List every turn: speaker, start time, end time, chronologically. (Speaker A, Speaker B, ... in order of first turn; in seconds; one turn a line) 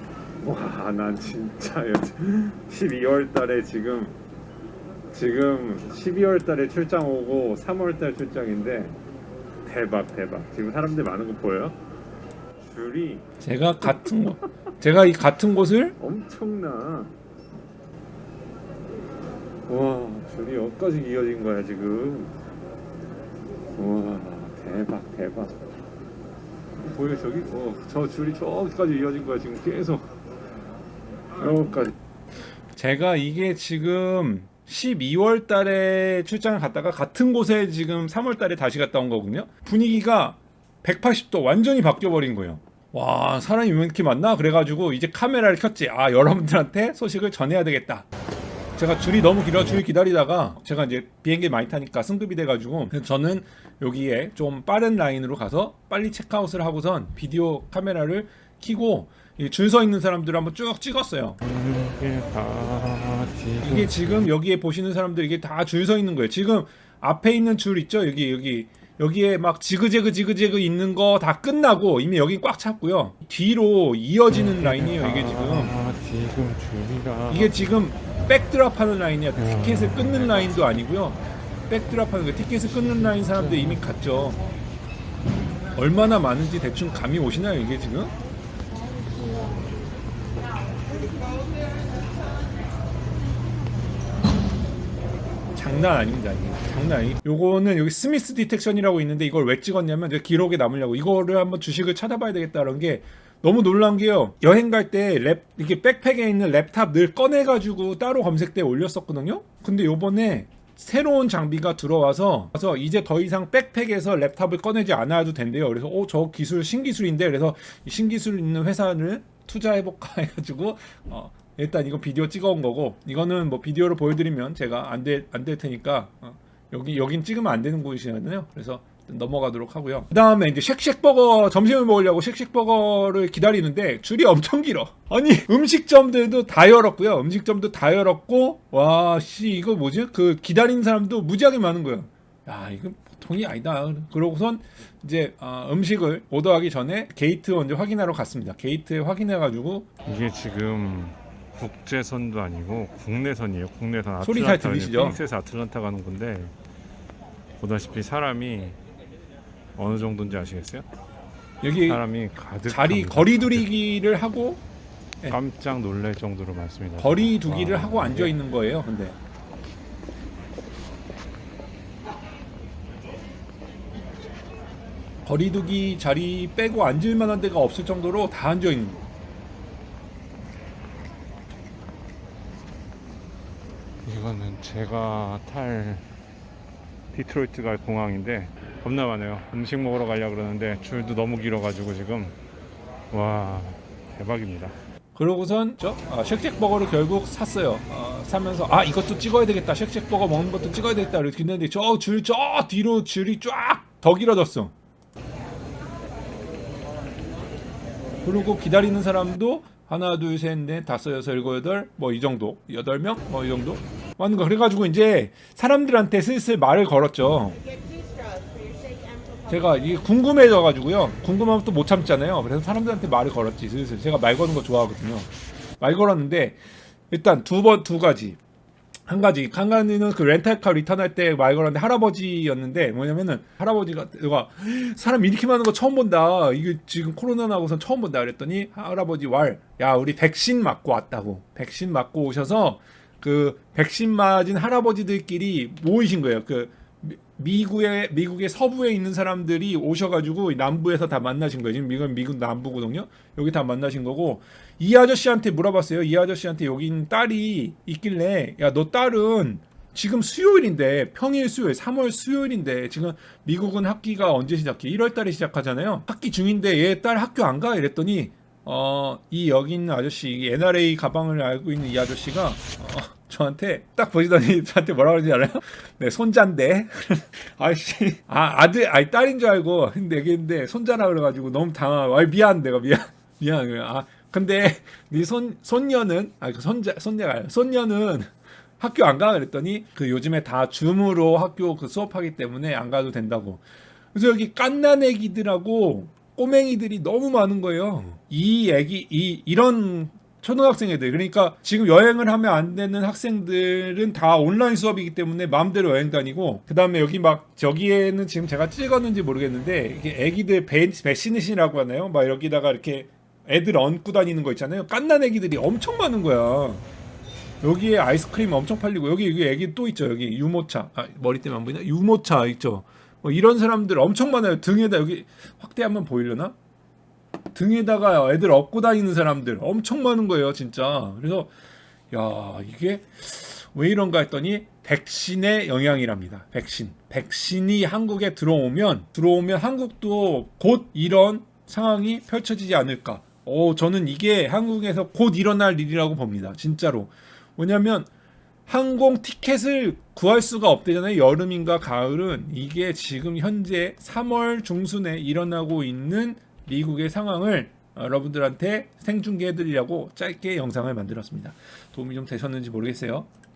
Speaker A: 0.4-4.2
Speaker A: 5.1-9.0
Speaker A: 9.7-11.8
Speaker B: 12.7-13.2
Speaker A: 12.8-13.2
Speaker C: 13.4-16.0
Speaker A: 16.0-17.1
Speaker A: 19.7-22.4
Speaker A: 23.8-25.6
Speaker A: 26.8-30.1
Speaker A: 31.4-31.9
Speaker C: 32.8-48.1
Speaker C: 48.8-61.4
Speaker B: 61.4-64.3
Speaker C: 63.6-75.8
Speaker B: 74.3-77.7
Speaker C: 77.3-84.4
Speaker B: 79.4-80.6
Speaker B: 82.7-83.8
Speaker C: 85.8-88.1
Speaker C: 95.6-149.9
Speaker B: 150.1-156.5
Speaker C: 154.2-155.2
Speaker B: 157.6-158.8
Speaker B: 159.8-160.9
Speaker C: 161.6-162.0
Speaker B: 161.8-163.7
Speaker C: 162.7-164.6
Speaker B: 165.3-168.4
Speaker C: 167.0-169.2
Speaker C: 175.3-179.0
Speaker B: 184.0-186.0
Speaker B: 187.1-192.4
Speaker B: 193.1-194.8
Speaker C: 195.2-204.7
Speaker C: 208.2-217.6
Speaker C: 219.5-225.3
Speaker C: 225.8-226.6
Speaker C: 227.1-228.4
Speaker C: 229.1-293.6
Speaker C: 294.1-316.8
Speaker C: 317.6-326.6
Speaker C: 327.5-331.5
Speaker C: 332.1-348.1
Speaker C: 348.7-363.3